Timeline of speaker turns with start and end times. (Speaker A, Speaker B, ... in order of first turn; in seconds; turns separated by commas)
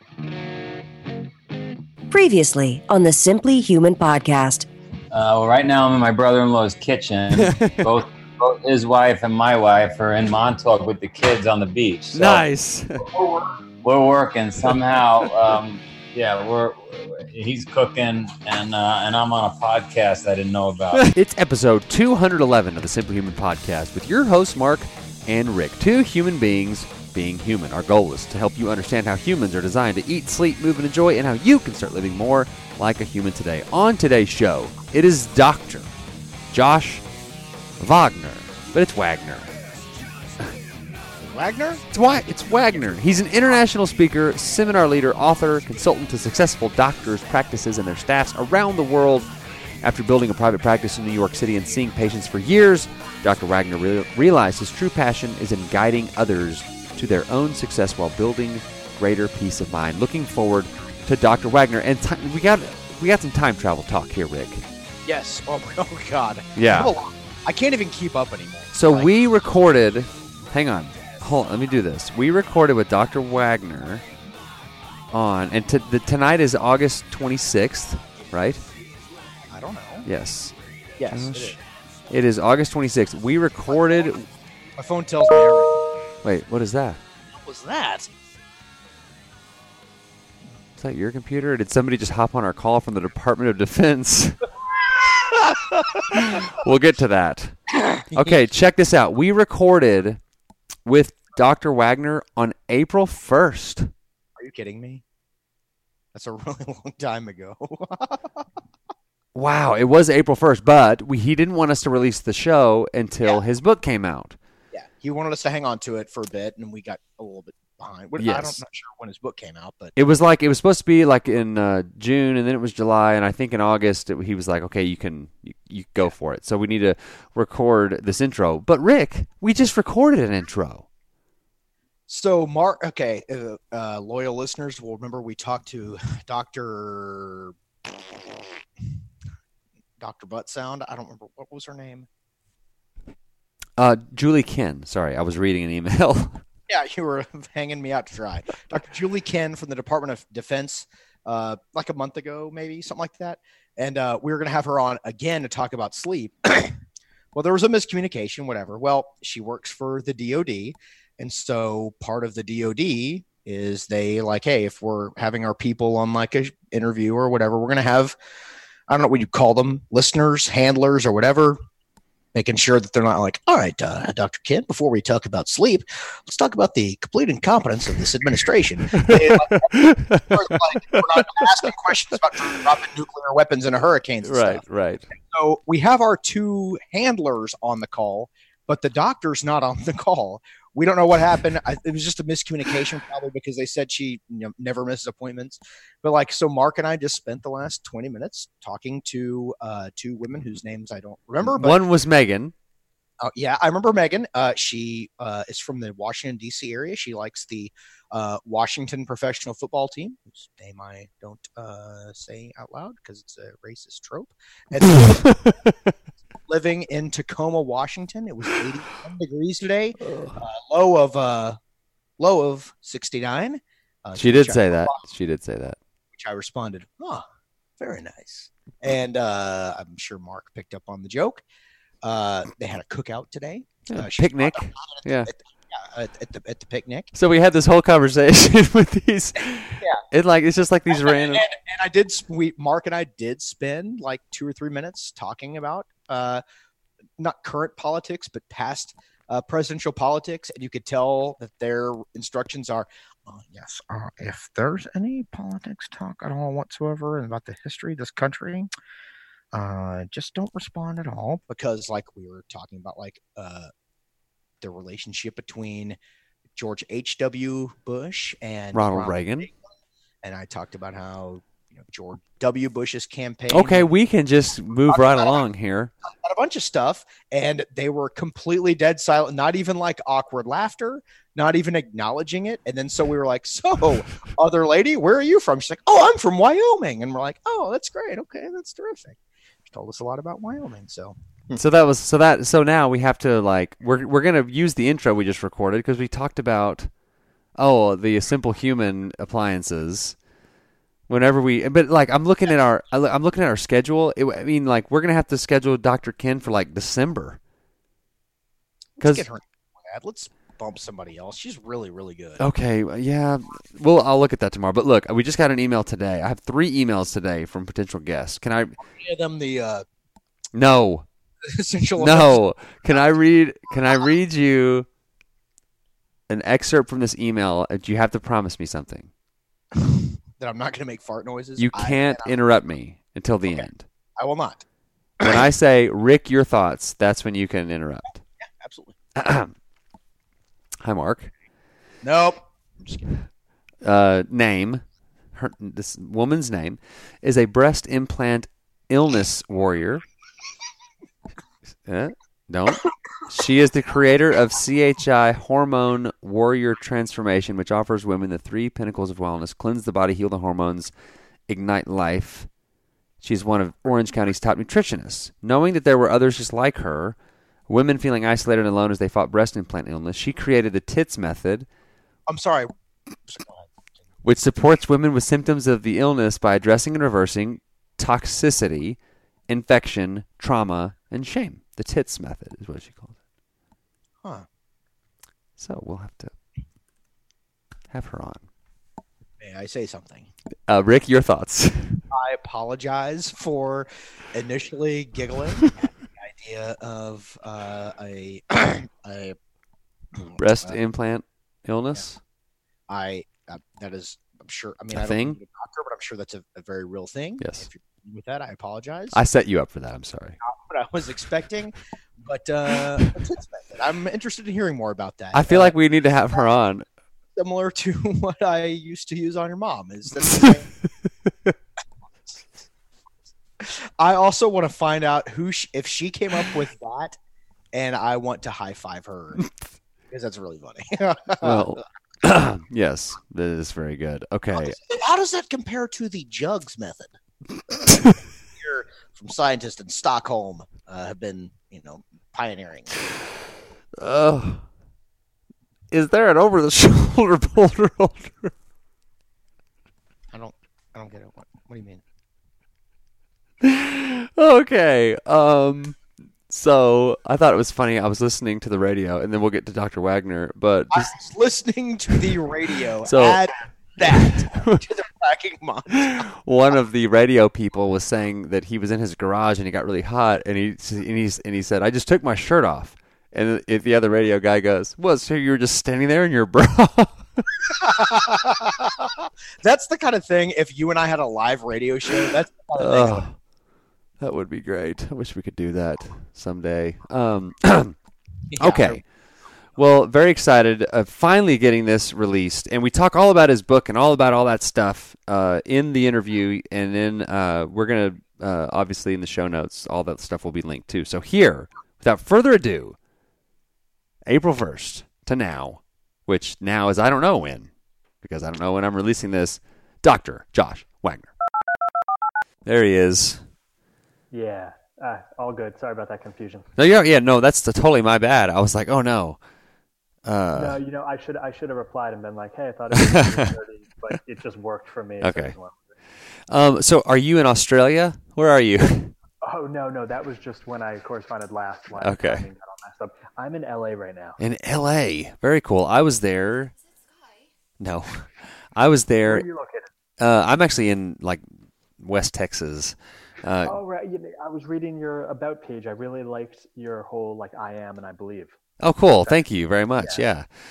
Speaker A: 2.1-4.7, Speaker B: 5.1-12.5, Speaker C: 7.3-7.9, Speaker C: 12.1-13.1, Speaker B: 13.0-21.1, Speaker C: 20.9-35.9, Speaker C: 36.5-37.0, Speaker C: 37.8-39.5, Speaker D: 41.2-41.9, Speaker C: 41.9-49.3, Speaker C: 49.8-64.7, Speaker D: 65.0-69.1, Speaker C: 66.6-66.9, Speaker C: 68.7-74.0, Speaker C: 75.1-78.6, Speaker D: 79.5-80.1, Speaker C: 80.1-80.5, Speaker D: 81.0-81.6, Speaker C: 81.1-84.3, Speaker D: 84.8-85.9, Speaker C: 86.2-87.0, Speaker D: 87.3-88.1, Speaker C: 90.8-94.5, Speaker C: 95.1-100.2, Speaker D: 97.9-98.3, Speaker C: 100.9-103.9, Speaker D: 104.4-105.0, Speaker D: 106.1-108.5, Speaker C: 109.3-114.4, Speaker D: 114.7-120.0, Speaker C: 118.2-118.6, Speaker C: 120.0-130.9, Speaker D: 132.1-138.5, Speaker D: 140.0-142.1, Speaker C: 143.8-146.4, Speaker D: 146.7-156.8, Speaker D: 157.3-168.2, Speaker D: 168.9-171.6, Speaker D: 172.3-201.8, Speaker C: 178.9-181.2, Speaker C: 184.2-185.0, Speaker C: 201.4-202.5, Speaker D: 203.2-215.4, Speaker C: 214.9-215.7, Speaker D: 216.4-221.6, Speaker C: 220.0-220.4, Speaker D: 222.2-225.0, Speaker C: 224.2-225.8, Speaker D: 226.1-227.3, Speaker D: 227.8-231.4, Speaker D: 232.0-237.1, Speaker C: 233.9-235.3, Speaker C: 237.1-241.4, Speaker D: 240.9-246.4, Speaker D: 247.2-258.7, Speaker D: 259.5-263.7, Speaker D: 264.6-266.0, Speaker D: 266.6-269.5, Speaker C: 268.7-269.5, Speaker D: 270.2-273.9, Speaker C: 273.5-275.9, Speaker D: 274.9-275.4, Speaker D: 276.0-291.6, Speaker C: 291.6-296.9, Speaker C: 297.6-300.2, Speaker C: 301.1-307.4, Speaker C: 309.0-309.3, Speaker D: 309.0-312.4, Speaker C: 312.4-318.8, Speaker D: 318.8-319.9, Speaker C: 320.5-321.1, Speaker D: 321.4-323.1, Speaker C: 322.0-324.9, Speaker D: 323.7-324.1, Speaker C: 326.3-329.1, Speaker D: 329.7-332.4, Speaker C: 331.6-333.9, Speaker D: 333.5-334.6, Speaker C: 335.2-338.2, Speaker D: 338.4-339.0, Speaker C: 339.2-339.5, Speaker C: 340.8-341.3, Speaker D: 342.0-343.2, Speaker C: 343.8-344.8, Speaker C: 345.3-350.0, Speaker C: 351.9-360.9, Speaker C: 361.5-362.5, Speaker C: 363.2-367.2, Speaker C: 367.7-371.7, Speaker D: 372.3-373.8, Speaker C: 374.2-383.2, Speaker C: 385.6-386.4, Speaker C: 387.9-388.5, Speaker D: 389.4-390.3, Speaker C: 390.7-392.0, Speaker D: 392.1-399.4, Speaker D: 400.1-400.8, Speaker C: 400.4-402.2, Speaker D: 402.9-409.2, Speaker C: 404.9-405.4, Speaker C: 407.4-407.7, Speaker C: 409.1-410.4, Speaker D: 410.4-415.8, Speaker C: 415.3-416.9, Speaker D: 417.4-420.7, Speaker D: 423.6-427.2, Speaker D: 427.7-429.4, Speaker D: 430.1-431.8, Speaker C: 431.4-434.8, Speaker D: 434.5-437.2, Speaker C: 437.9-438.1, Speaker D: 438.5-443.0, Speaker C: 444.0-444.6, Speaker C: 445.9-448.5, Speaker D: 450.3-452.0, Speaker C: 453.6-461.1, Speaker D: 460.9-466.3, Speaker C: 463.1-463.4, Speaker C: 464.0-464.8, Speaker C: 465.9-477.5, Speaker D: 477.7-483.3, Speaker C: 482.8-483.4, Speaker C: 484.2-488.0, Speaker D: 488.5-489.0, Speaker C: 488.6-489.1, Speaker C: 489.8-503.0, Speaker C: 504.3-507.7, Speaker C: 508.2-511.3, Speaker C: 512.7-513.5, Speaker E: 514.3-516.7, Speaker C: 516.8-519.4, Speaker C: 520.2-520.8, Speaker E: 520.5-525.9, Speaker C: 523.1-523.5, Speaker C: 525.2-525.5, Speaker C: 526.5-529.1, Speaker E: 529.4-534.4, Speaker C: 532.0-532.5, Speaker C: 534.4-536.8, Speaker C: 537.8-539.5, Speaker E: 539.2-539.9, Speaker C: 540.2-541.5, Speaker C: 542.0-543.8, Speaker E: 543.6-548.6, Speaker C: 548.8-550.5